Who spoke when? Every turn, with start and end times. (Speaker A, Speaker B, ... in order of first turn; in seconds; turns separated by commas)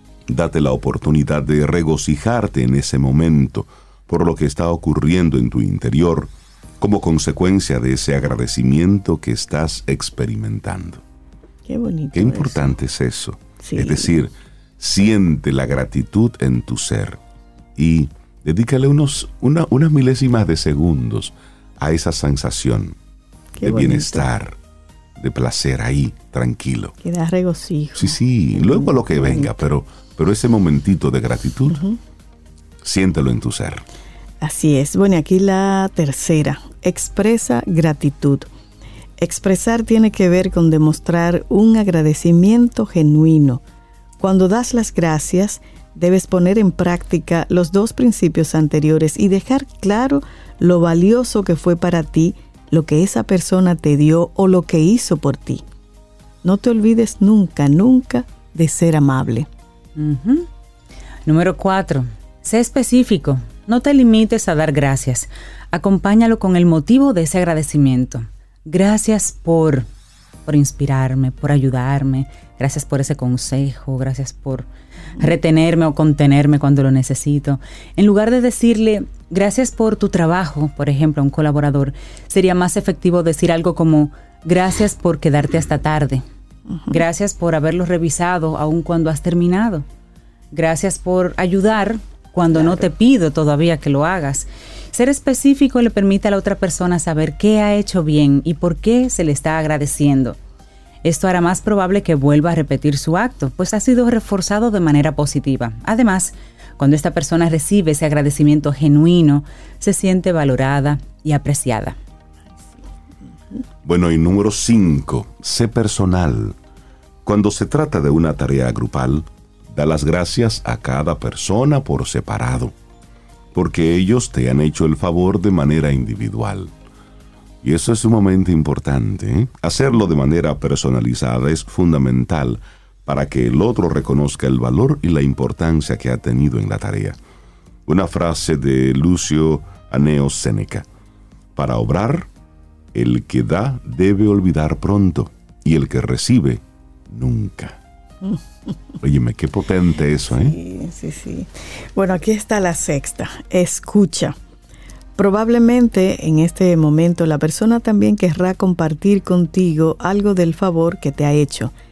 Speaker A: 0.3-6.3, Speaker A: 6.8-11.0, Speaker B: 11.7-12.6, Speaker A: 12.1-17.2, Speaker B: 13.6-14.1, Speaker A: 17.8-22.9, Speaker B: 23.6-24.2, Speaker A: 23.6-24.5, Speaker A: 25.2-26.9, Speaker B: 27.0-29.5, Speaker A: 27.9-31.8, Speaker B: 31.7-32.0, Speaker A: 32.8-33.8, Speaker B: 34.4-38.5, Speaker B: 39.2-43.6, Speaker B: 44.2-55.6, Speaker B: 56.4-59.5, Speaker C: 60.0-60.5, Speaker C: 61.2-69.9, Speaker C: 70.5-86.2, Speaker B: 86.7-87.0, Speaker C: 86.9-89.8, Speaker C: 90.5-100.4, Speaker C: 101.0-112.0, Speaker A: 113.8-116.5, Speaker A: 117.2-122.7, Speaker A: 123.5-126.7, Speaker A: 127.6-137.2, Speaker A: 137.9-140.8, Speaker A: 141.6-142.3, Speaker A: 142.9-147.8, Speaker B: 148.2-148.7, Speaker A: 149.0-150.5, Speaker B: 150.3-154.4, Speaker B: 155.2-161.7